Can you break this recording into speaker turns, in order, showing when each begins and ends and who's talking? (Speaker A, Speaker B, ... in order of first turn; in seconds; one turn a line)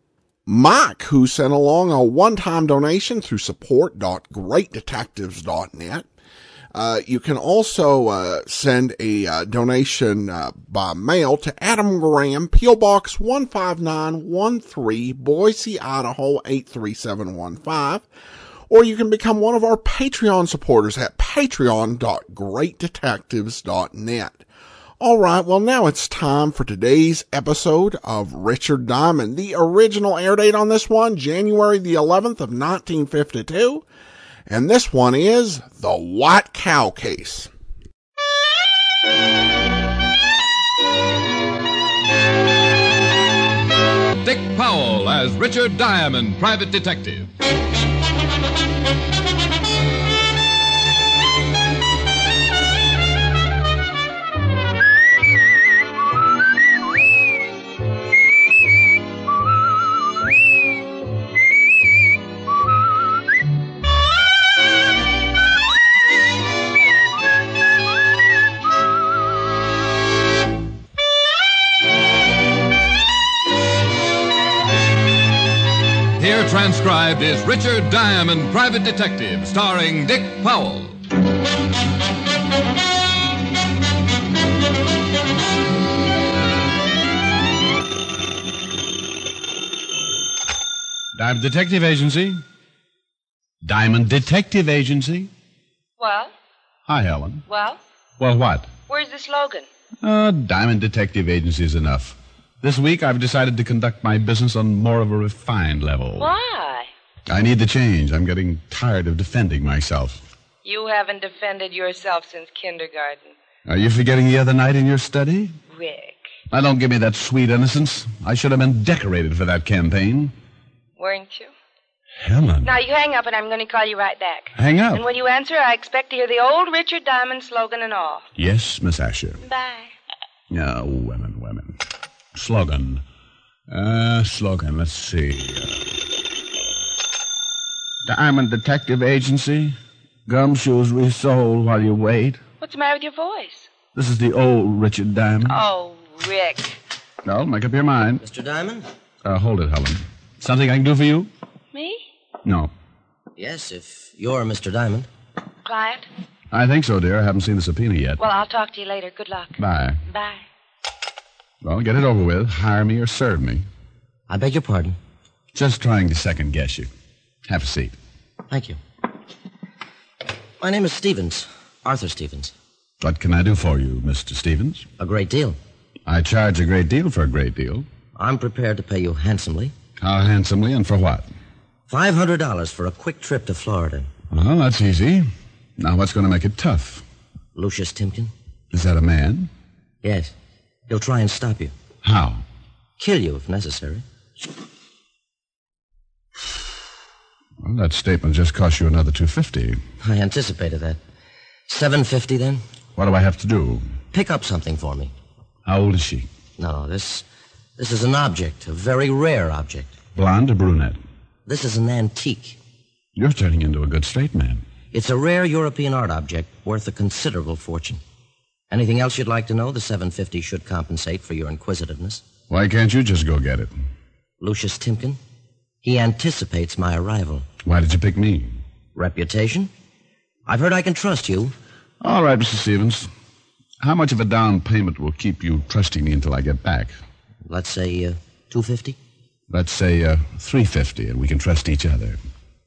Speaker A: 0.5-6.1
Speaker A: 6.7-18.1
Speaker A: 18.7-24.4
Speaker A: 25.0-33.8
Speaker A: 34.5-37.5
Speaker B: 44.2-47.3
Speaker B: 76.2-81.0
Speaker C: 91.1-92.4
Speaker C: 93.6-95.3
Speaker D: 96.0-96.3
Speaker C: 96.9-97.4
Speaker D: 97.5-97.8
Speaker C: 98.2-98.7
Speaker D: 98.9-99.7
Speaker C: 100.0-106.3
Speaker D: 106.2-106.9
Speaker C: 107.3-110.2
Speaker D: 110.6-113.3
Speaker C: 113.7-115.5
Speaker D: 115.7-116.2
Speaker C: 116.5-120.3
Speaker D: 121.0-121.5
Speaker C: 122.2-122.8
Speaker D: 122.6-128.2
Speaker C: 124.5-125.0
Speaker C: 128.4-129.4
Speaker D: 129.4-129.9
Speaker C: 130.5-131.8
Speaker C: 132.3-133.0
Speaker C: 133.7-135.8
Speaker C: 138.1-139.8
Speaker C: 140.3-142.4
Speaker D: 142.6-143.7
Speaker C: 143.9-145.6
Speaker D: 145.4-146.8
Speaker C: 147.2-148.2
Speaker E: 148.2-148.8
Speaker C: 149.2-151.3
Speaker D: 151.7-152.0
Speaker C: 152.4-152.7
Speaker E: 153.3-155.1
Speaker D: 155.6-156.1
Speaker C: 156.5-158.2
Speaker D: 158.2-159.6
Speaker C: 159.6-160.0
Speaker D: 160.1-160.4
Speaker C: 161.6-163.6
Speaker E: 164.3-164.9
Speaker C: 165.5-166.9
Speaker C: 167.5-167.9
Speaker E: 168.5-168.8
Speaker E: 170.6-172.5
Speaker C: 173.0-174.8
Speaker E: 175.0-175.6
Speaker C: 176.1-177.9
Speaker E: 178.2-179.7
Speaker C: 180.0-181.3
Speaker E: 181.9-184.1
Speaker C: 184.3-187.0
Speaker E: 187.5-188.3
Speaker C: 188.7-189.5
Speaker E: 190.0-190.3
Speaker E: 190.9-191.7
Speaker C: 192.0-192.4
Speaker E: 193.0-194.0
Speaker C: 197.6-199.8
Speaker E: 200.0-201.0
Speaker E: 201.7-202.6
Speaker C: 202.9-203.8
Speaker E: 204.1-205.1
Speaker C: 205.7-206.3
Speaker E: 206.6-207.2
Speaker E: 207.8-209.9
Speaker C: 210.1-211.0
Speaker E: 211.5-212.6
Speaker C: 213.2-214.6
Speaker E: 214.9-218.0
Speaker E: 218.7-222.2
Speaker C: 222.5-223.7
Speaker E: 224.4-225.2
Speaker E: 225.8-227.4
Speaker C: 227.6-228.6
Speaker E: 228.9-229.7
Speaker E: 230.5-231.5
Speaker C: 232.0-233.1
Speaker C: 233.8-236.9
Speaker E: 237.4-238.9
Speaker C: 239.5-242.2